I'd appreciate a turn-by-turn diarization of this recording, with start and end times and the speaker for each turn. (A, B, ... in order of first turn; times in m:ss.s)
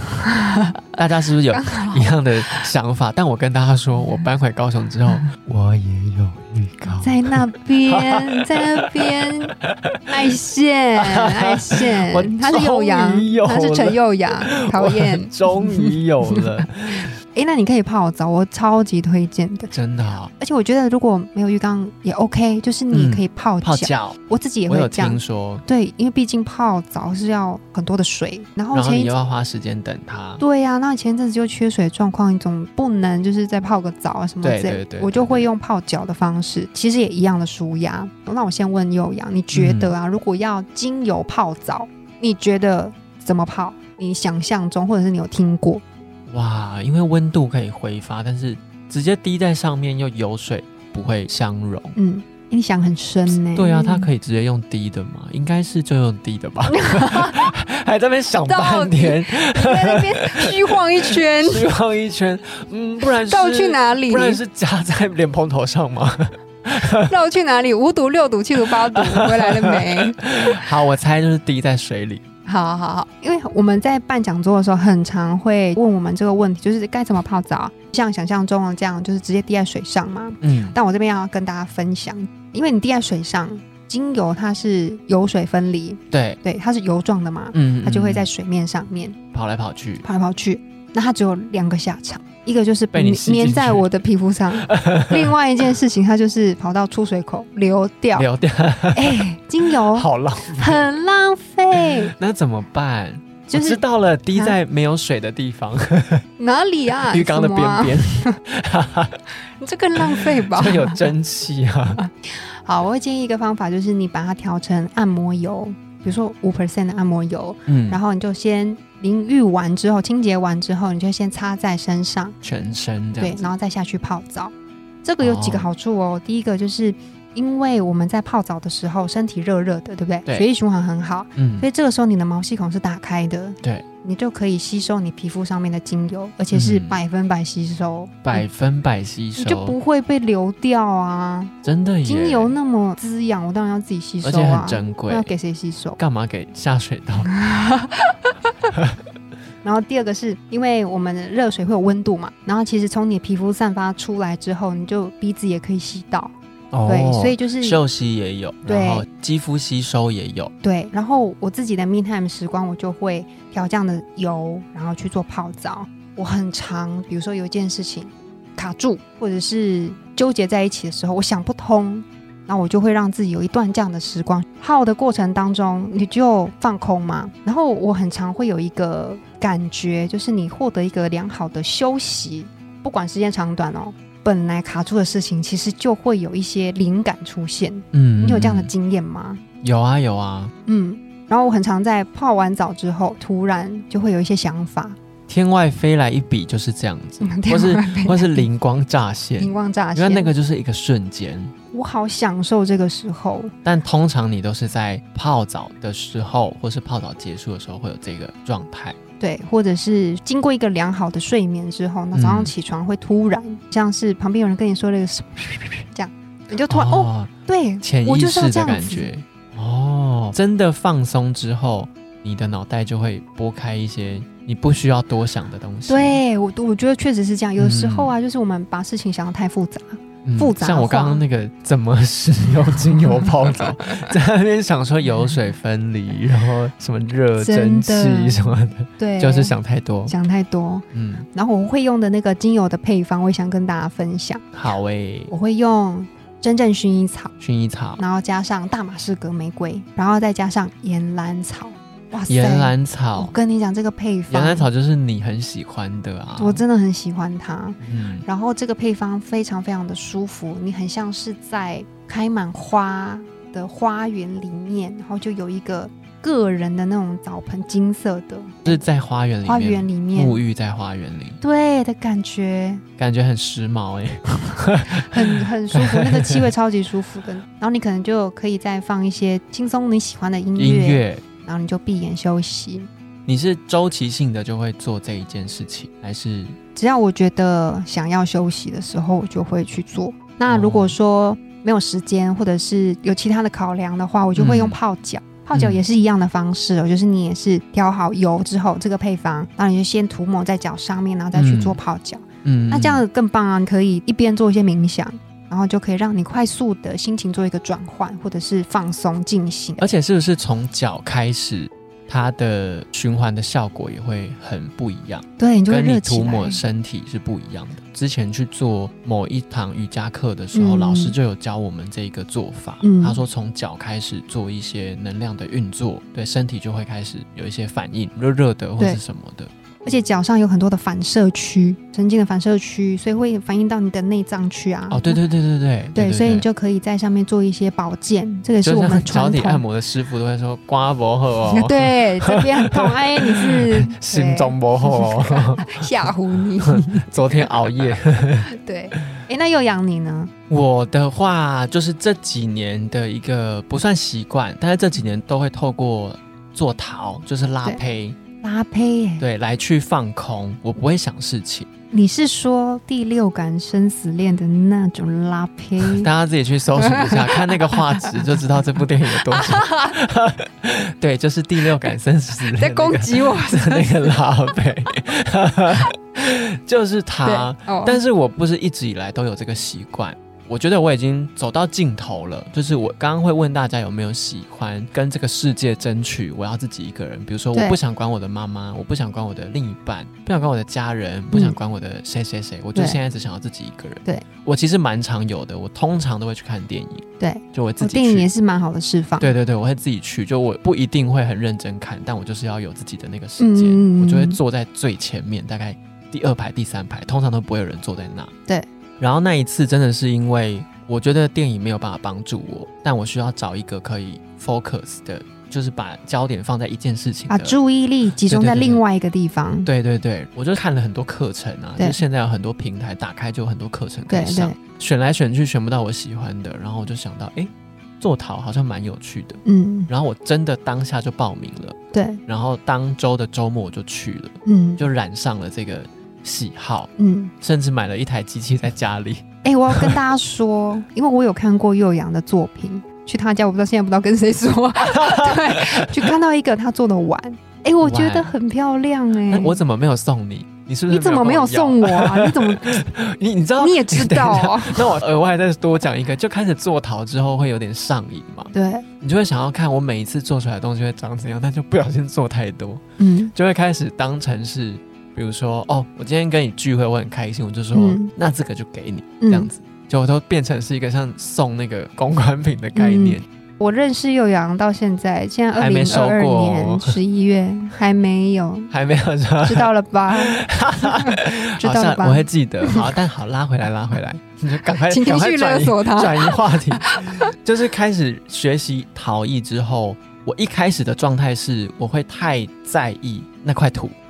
0:00.2-0:00.8 A
0:00.9-0:10.1 B
0:01.5-0:02.1 A
0:06.9-0:09.6 A
0:10.1-0:16.5 A
0:11.0-0:17.1 B
0:17.3-0:19.7 A
0:19.7-0:20.3 B
0:20.3-0:29.2 A
0:22.9-0:25.6 B
0:28.7-0:30.4 B
0:30.4-0:45.8 A
0:34.4-0:35.5 B
0:39.5-0:39.9 B
0:46.3-0:52.0 B
0:52.0-0:54.1 A
0:53.3-1:07.1 B
0:56.7-0:57.4 A
0:58.5-1:01.7 A
1:03.2-1:04.4 A
1:07.0-1:10.6 A
1:08.6-1:12.2 B
1:12.4-1:29.2 A
1:20.4-1:20.8 B
1:26.1-1:26.4 B
1:27.5-1:28.3 B
1:29.3-1:30.1 B
1:30.0-1:38.3 A
1:32.9-1:33.9 B
1:34.7-1:35.3 B
1:38.1-1:39.2 B
1:39.0-1:42.1 A
1:39.9-1:40.9 B
1:41.8-1:46.2 B
1:43.5-1:43.8 A
1:46.4-1:48.4 A
1:47.1-1:49.2 B
1:49.6-1:51.0 A
1:50.0-1:52.0 B
1:52.0-2:02.4 A
1:57.7-1:58.0 B
2:02.4-2:03.5 B
2:03.2-2:04.5 A
2:05.0-2:18.4 A
2:05.2-2:05.7 B
2:11.4-2:11.7 B
2:16.5-2:17.0 B
2:18.2-2:19.8 B
2:19.4-2:21.5 A
2:21.6-2:22.6 B
2:22.0-2:26.0 A
2:24.2-2:25.3 B
2:26.0-2:27.3 B
2:27.3-2:28.1 A
2:29.6-2:36.3 A
2:36.7-2:40.5 B
2:36.9-2:37.8 A
2:38.7-2:39.1 A
2:40.6-3:09.4 A
3:07.9-3:08.7 B
3:09.6-3:10.5 B
3:10.7-3:15.0 A
3:15.3-3:21.5 B
3:17.2-3:18.5 A
3:19.4-3:20.3 A
3:21.7-3:23.5 A
3:23.6-3:29.0 B
3:29.2-3:39.1 A
3:32.1-3:32.5 B
3:36.7-3:37.3 B
3:37.8-3:46.2 B
3:45.9-3:51.2 A
3:47.6-3:48.1 B
3:50.2-4:00.1 B
3:57.4-4:04.4 A
4:00.9-4:01.3 B
4:04.5-4:05.3 B
4:05.3-4:07.3 A
4:07.4-4:08.0 B
4:08.0-4:14.7 A
4:12.3-4:13.4 B
4:14.3-4:16.6 B
4:16.4-4:28.8 A
4:17.8-4:18.3 B
4:28.6-4:31.4 B
4:29.4-4:30.4 A
4:31.4-4:32.8 A
4:33.0-4:35.1 B
4:34.9-4:42.9 A
4:35.7-4:36.4 B
4:40.6-4:41.2 B
4:43.3-4:46.6 B
4:46.8-5:09.9 A
4:50.5-4:51.0 B
4:54.4-4:54.8 B
4:55.5-4:55.8 B
5:01.3-5:01.8 B
5:02.4-5:03.0 B
5:09.8-5:29.5 B
5:15.4-5:16.6 A
5:20.5-5:21.2 A
5:22.8-5:23.2 A
5:29.8-5:35.2 A
5:34.9-5:36.5 B
5:36.0-5:39.6 A
5:38.6-5:45.9 B
5:41.5-5:47.0 A
5:46.6-5:48.5 B
5:48.5-5:50.3 A
5:50.5-5:58.2 B
5:58.4-5:59.2 A
5:59.2-6:01.7 B
6:01.9-6:06.1 A
6:05.8-6:38.3 B
6:06.8-6:08.2 A
6:09.1-6:10.0 A
6:12.5-6:14.2 A
6:17.2-6:18.0 A
6:31.3-6:31.6 A
6:37.2-6:39.4 A
6:39.2-6:48.3 B
6:43.4-6:44.4 A
6:49.0-6:57.6 B
6:57.3-6:59.7 A
6:58.2-6:58.8 B
6:59.7-7:20.0 B
7:04.1-7:04.6 A
7:09.4-7:09.9 A
7:11.9-7:12.2 A
7:14.4-7:14.8 A
7:17.0-7:17.3 A
7:19.4-7:29.6 A
7:24.8-7:26.0 B
7:27.8-7:28.3 B
7:29.3-7:42.8 B
7:30.9-7:32.8 A
7:33.6-7:35.0 A
7:38.5-7:38.8 A
7:43.0-7:43.3 A
7:43.3-7:53.3 B
7:47.7-7:48.1 A
7:49.2-7:49.5 A
7:52.8-7:58.7 A
7:55.6-7:57.0 B
7:58.7-8:14.0 B
7:59.4-8:02.9 A
8:04.9-8:07.3 A